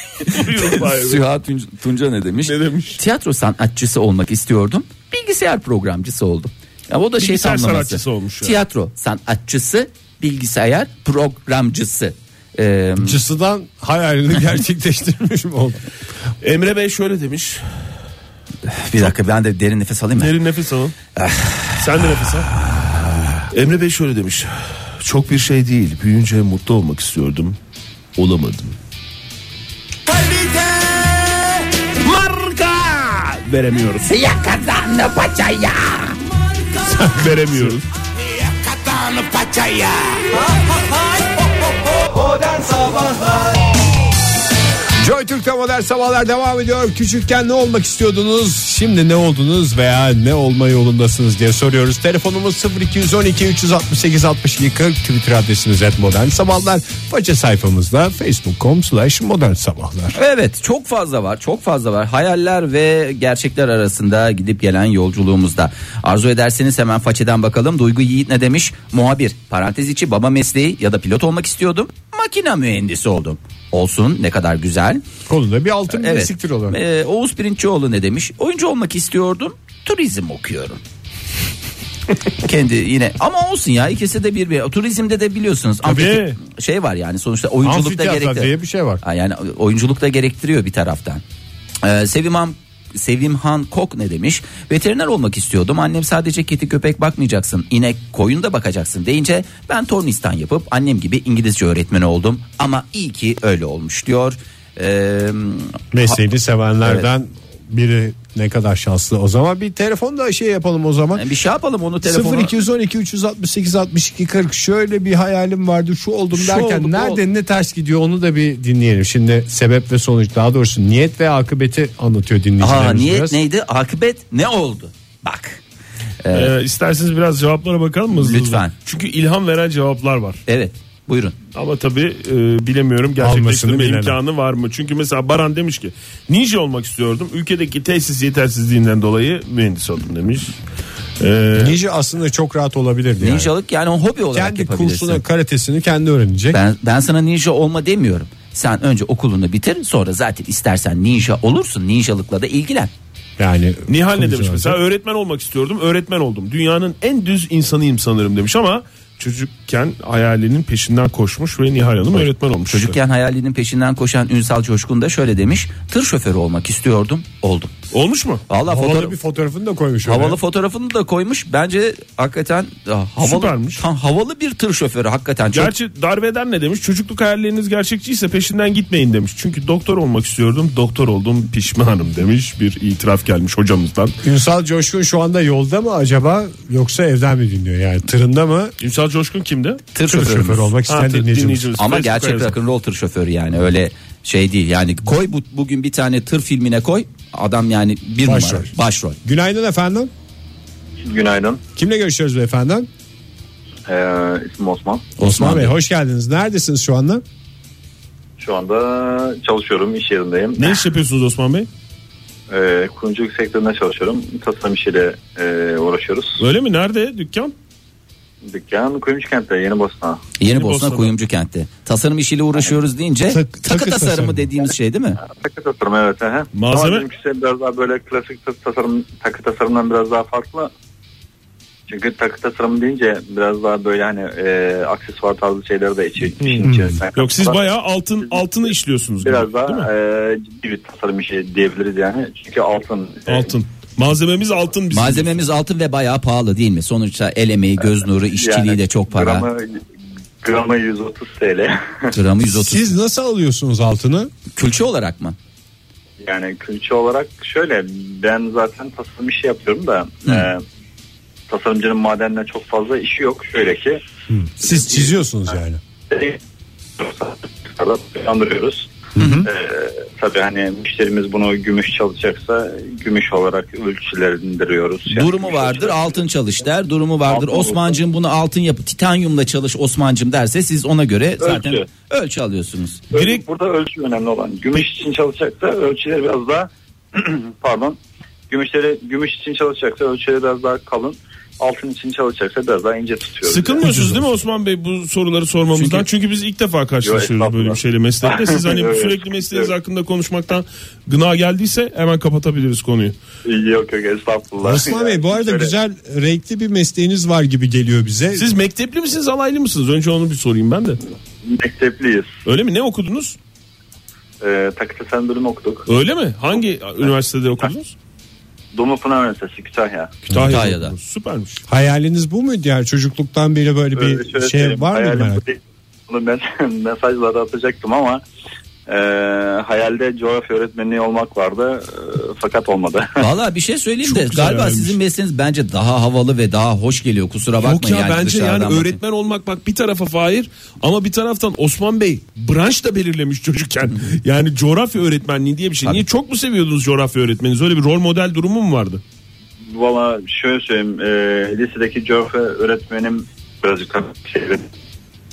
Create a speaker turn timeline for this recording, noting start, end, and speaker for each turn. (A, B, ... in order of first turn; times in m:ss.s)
0:00.2-0:13.2 A
0:00.2-0:01.2 B
0:02.4-0:03.0 B
0:07.2-0:08.6 B
0:13.0-0:15.8 C
0:16.4-0:17.8 B
0:18.6-0:20.3 A
0:20.2-0:20.9 B
0:21.2-0:23.4 A
0:21.8-0:22.5 B
0:23.5-0:27.6 B
0:28.2-0:28.7 B
0:32.0-0:34.1 B
0:34.1-0:36.1 A
0:36.9-0:37.2 C
0:36.9-0:37.8 B
0:38.5-0:40.4 A
0:42.1-0:43.5 A
0:45.0-1:00.2 C
1:00.1-1:15.0 A
1:15.3-1:16.8 C
1:15.9-1:20.8 A
1:22.4-1:31.2 A
1:25.8-1:26.4 B
1:27.6-1:29.0 C
1:31.8-1:46.2 A
1:45.9-1:51.2 C
1:51.1-1:52.5 A
1:52.0-2:03.4 C
1:56.4-1:57.1 A
1:56.8-1:57.2 B
2:02.6-2:05.6 A
2:06.2-2:06.5 A
2:06.3-2:10.4 B
2:08.1-2:08.7 A
2:10.5-2:11.3 A
2:11.5-2:20.6 B
2:13.2-2:14.2 C
2:21.2-2:21.8 B
2:21.6-2:23.5 C
2:23.2-2:25.2 A
2:24.3-2:26.6 C
2:26.5-2:32.9 A
2:33.4-2:34.8 C
2:33.9-2:43.0 B
2:42.1-2:47.7 A
2:47.9-2:48.4 B
2:48.5-2:49.2 A
2:48.6-2:50.4 C
2:50.0-2:55.7 A
2:53.2-2:53.8 B
2:55.5-3:04.2 B
3:04.2-3:08.7 C
3:08.8-3:09.8 B
3:09.9-3:10.7 A
3:10.1-3:11.7 C
3:10.8-3:12.5 B
3:11.8-3:19.2 A
3:18.2-3:18.7 C
3:19.2-3:20.1 C
3:21.0-3:21.6 D
3:21.8-3:22.9 C
3:23.9-3:25.1 D
3:25.2-3:25.7 A
3:25.2-3:27.2 C
3:28.4-3:30.8 D
3:30.6-3:31.7 B
3:32.5-3:36.4 D
3:36.4-3:37.5 B
3:38.4-3:40.2 D
3:40.4-3:45.2 A
3:40.4-3:41.1 B
3:43.3-3:44.5 C
3:45.2-3:50.7 D
3:46.5-3:47.0 B
3:51.9-3:57.6 D
3:56.4-3:59.9 B
3:56.6-3:57.0 C
3:58.2-3:58.6 D
3:59.2-4:03.5 D
4:03.3-4:05.4 B
4:04.9-4:09.5 A
4:08.3-4:09.8 D
4:10.4-4:12.1 D
4:12.1-4:12.9 A
4:12.5-4:14.3 C
4:14.5-4:15.4 A
4:16.2-4:20.6 D
4:21.5-4:24.0 D
4:24.3-4:25.8 C
4:24.6-4:25.1 D
4:26.1-4:26.4 D
4:27.0-4:28.9 D
4:29.2-4:29.5 C
4:29.4-4:36.2 D
4:35.1-4:43.0 A
4:37.3-4:38.0 D
4:41.4-4:41.8 D
4:43.1-4:53.8 D
4:43.1-4:43.4 B
4:53.4-5:03.2 B
4:53.8-4:54.2 C
4:55.7-4:56.1 A
4:57.0-4:59.7 D
5:03.4-5:05.7 D
5:04.6-5:08.5 C
5:08.4-5:11.0 B
5:11.4-5:12.3 D
5:12.4-5:13.4 B
5:14.4-5:15.9 D
5:15.9-5:17.9 B
5:18.7-5:20.2 D
5:20.3-5:20.6 C
5:20.3-5:21.6 B
5:20.5-5:20.9 A
5:21.7-5:25.4 C
5:24.0-5:28.2 D
5:28.9-5:33.2 D
5:33.2-5:39.0 A
5:34.0-5:35.0 B
5:37.6-5:49.0 B
5:49.7-5:54.6 D